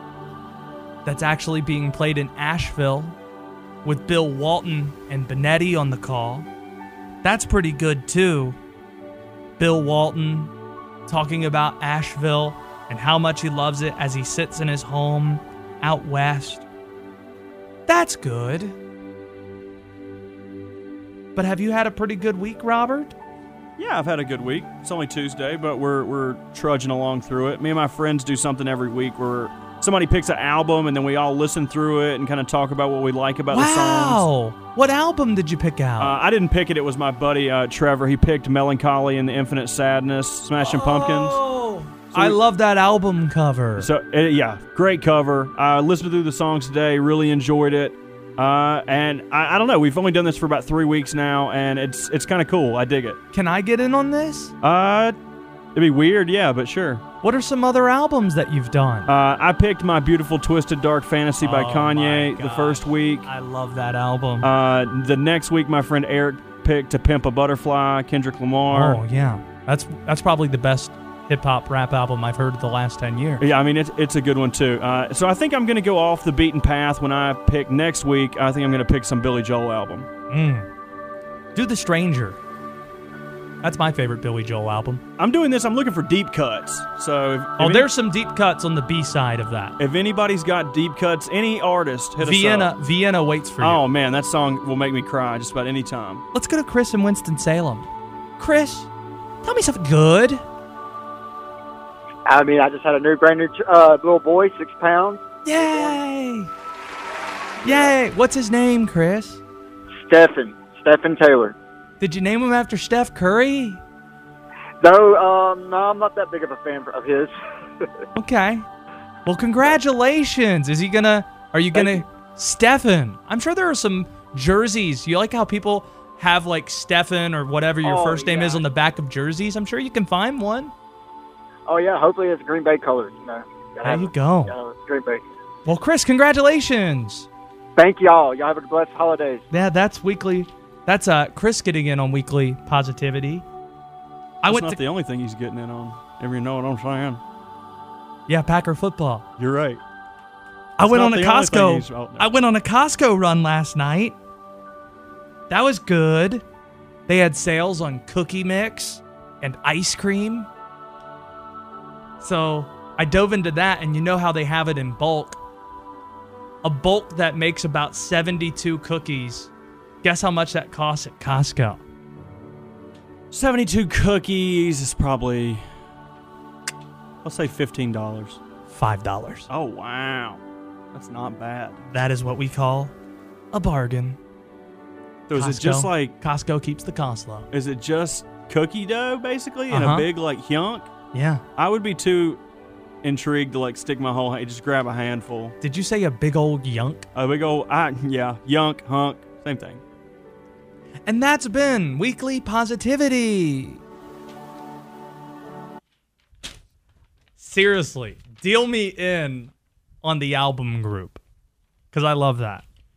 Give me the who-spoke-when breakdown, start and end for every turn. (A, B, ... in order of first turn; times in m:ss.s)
0:01.0-0:03.2 A
0:03.8-0:06.5 A
0:07.2-0:08.6 A
0:09.6-0:10.5 A
0:11.1-0:16.7 A
0:17.9-0:18.8 A
0:21.4-0:23.2 A
0:23.8-0:34.2 B
0:33.5-0:36.1 A
0:36.0-0:41.4 B
0:40.6-0:43.9 A
0:42.1-0:42.4 B
0:43.8-0:53.2 B
0:53.3-0:54.5 A
0:54.6-0:55.2 B
0:55.8-0:57.0 B
0:57.2-0:59.1 A
0:59.1-1:03.3 B
1:01.4-1:04.5 A
1:04.4-1:09.0 B
1:08.7-1:13.4 A
1:13.4-1:20.1 B
1:20.3-1:20.7 A
1:21.6-1:22.4 A
1:23.6-1:25.0 A
1:25.2-1:27.9 B
1:27.6-1:29.8 A
1:29.8-1:32.7 B
1:32.2-1:33.8 A
1:33.6-1:36.2 B
1:36.3-1:37.9 A
1:38.4-1:38.9 A
1:39.4-1:40.4 A
1:42.3-1:45.9 C
1:45.4-1:46.5 A
1:47.6-1:49.4 A
1:50.1-1:51.5 C
1:52.0-1:53.8 A
1:54.8-1:57.3 C
1:58.2-1:58.7 A
1:59.3-2:10.7 A
2:07.9-2:08.6 C
2:11.7-2:15.2 C
2:13.8-2:14.6 A
2:15.7-2:17.3 A
2:17.8-2:19.4 C
2:19.5-2:23.4 A
2:24.4-2:24.8 A
2:24.5-2:27.2 B
2:28.3-2:29.2 A
2:29.4-2:29.8 B
2:30.8-2:34.2 A
2:30.9-2:32.3 B
2:35.5-2:36.4 A
2:37.1-2:40.5 A
2:42.2-2:45.4 A
2:46.6-2:49.5 A
2:50.0-2:51.8 A
2:53.3-2:55.7 B
2:57.2-2:58.4 B
2:58.7-2:59.5 A
2:59.5-3:00.4 B
3:00.9-3:01.8 B
3:01.9-3:02.9 A
3:03.5-3:04.2 A
3:05.3-3:06.1 B
3:05.4-3:07.5 A
3:07.5-3:10.9 B
3:09.7-3:10.1 A
3:11.1-3:11.4 A
3:11.6-3:12.4 B
3:13.0-3:15.6 B
3:15.6-3:17.0 A
3:17.2-3:19.8 B
3:21.1-3:23.8 A
3:27.4-3:29.5 A
3:30.0-3:31.2 A
3:31.9-3:32.6 A